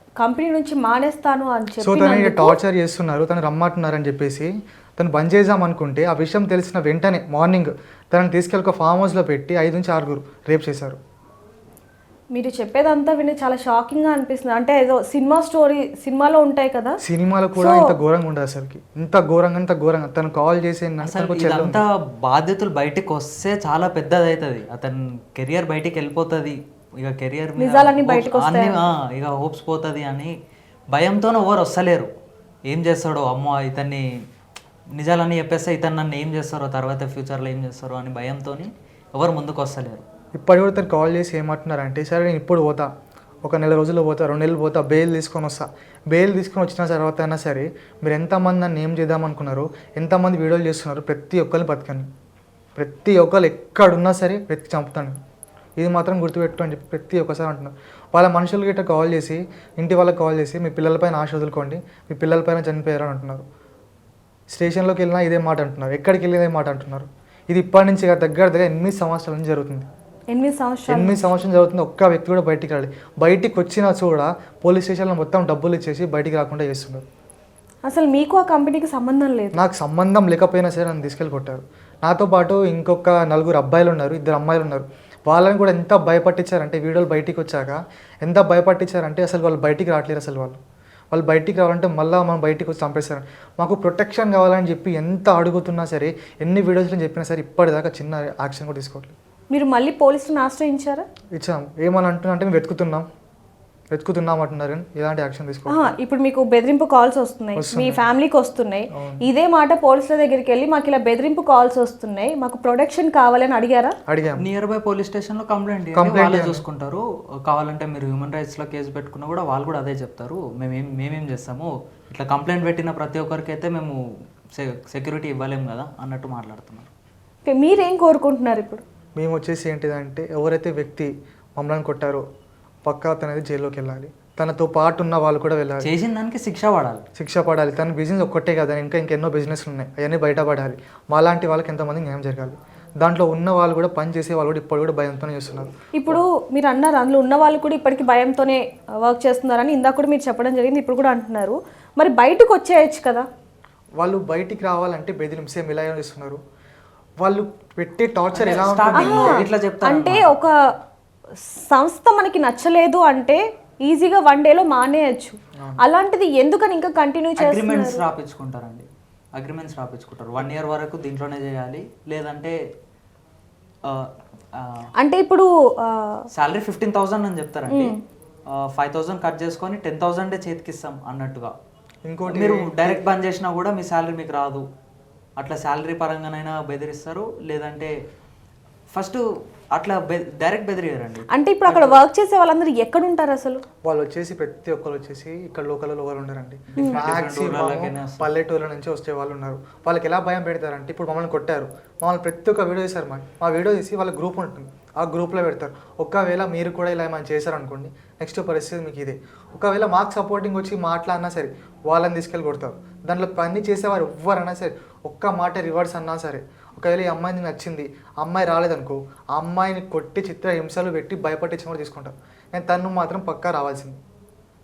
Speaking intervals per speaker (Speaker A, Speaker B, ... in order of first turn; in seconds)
Speaker A: 0.2-2.6, 12.3-17.0, 17.6-17.9, 27.6-28.8, 70.3-71.3, 77.8-79.6, 99.5-101.0, 105.7-114.0, 127.4-128.8, 145.9-153.3, 158.9-160.5, 161.4-168.0, 175.0-176.3, 177.7-178.0, 191.3-193.6
Speaker B: 1.8-11.0, 17.0-21.8, 40.3-42.9, 43.4-52.1, 52.8-55.2, 55.8-63.5, 64.5-69.9, 70.9-77.0, 79.5-90.6, 91.1-99.2, 101.3-103.1, 103.9-106.0, 107.5-108.0, 108.9-109.2, 114.1-114.5, 115.9-116.6, 129.2-132.2, 132.8-135.9, 137.2-146.2, 154.0-156.4, 157.2-159.4, 165.6-165.8, 182.0-183.0, 191.7-191.9, 193.8-224.0
Speaker C: 21.0-30.3, 30.9-32.1, 32.7-34.0, 35.0-40.0, 114.4-124.0, 124.5-126.9, 135.8-137.0, 158.3-160.3, 167.4-172.6, 173.8-174.9, 176.3-177.9, 178.5-181.5, 182.3-184.6, 185.4-187.9, 188.9-191.3, 196.7-198.3